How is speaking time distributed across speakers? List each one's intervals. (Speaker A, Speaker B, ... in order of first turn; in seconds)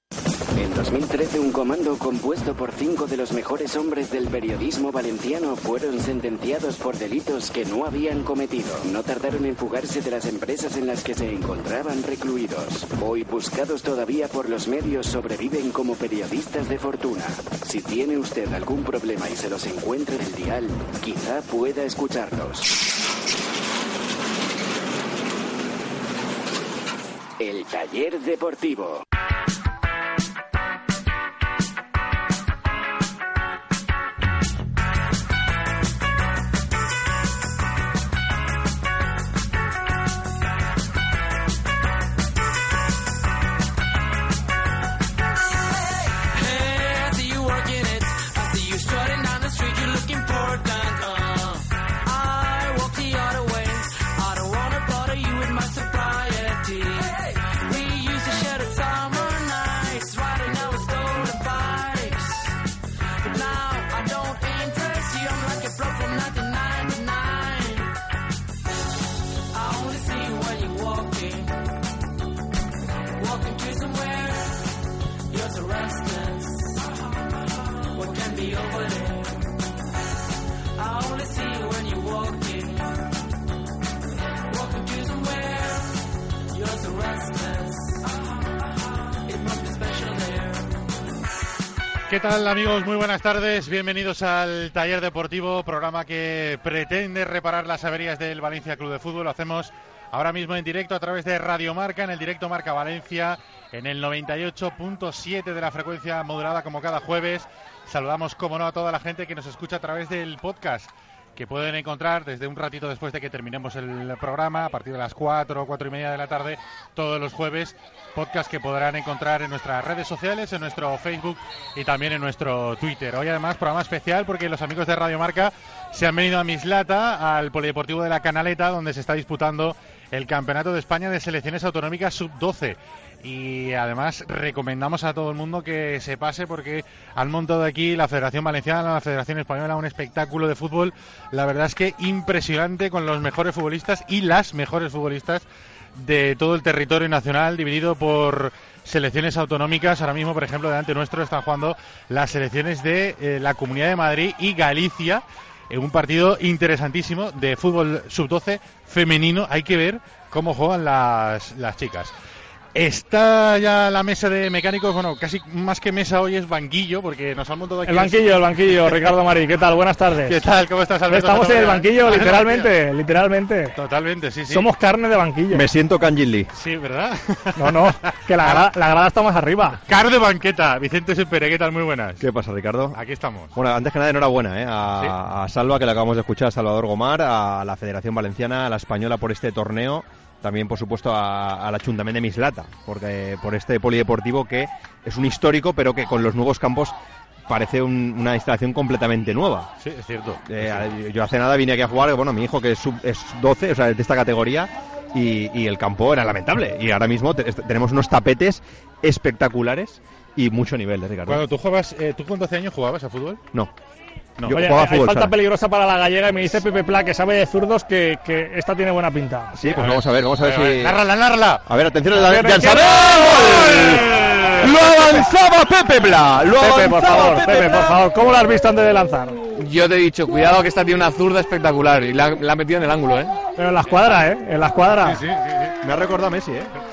Speaker A: 0.6-22.8, 27.4-29.0
Speaker B: 45.7-62.6, 63.2-67.9, 69.5-71.7, 73.1-74.7, 75.3-79.5, 80.8-83.0, 84.5-90.8
Speaker C: 92.1-145.4, 146.0-162.1, 162.8-169.1, 170.2-172.7, 173.8-174.7, 176.5-178.7, 179.9-182.2, 182.9-183.5, 199.8-200.9, 211.3-213.4, 219.8-221.7, 223.3-224.4, 235.0-235.8
Speaker D: 167.8-170.4, 171.1-173.8, 174.5-175.7, 177.6-179.8, 214.5-219.5, 222.2-222.9, 226.6-229.4, 233.6-235.2
Speaker E: 175.5-176.5, 182.2-183.0, 183.5-197.0, 197.5-199.7, 200.5-211.4, 214.4-215.4, 219.5-221.0, 221.7-228.0, 235.8-236.7
Speaker F: 229.6-233.4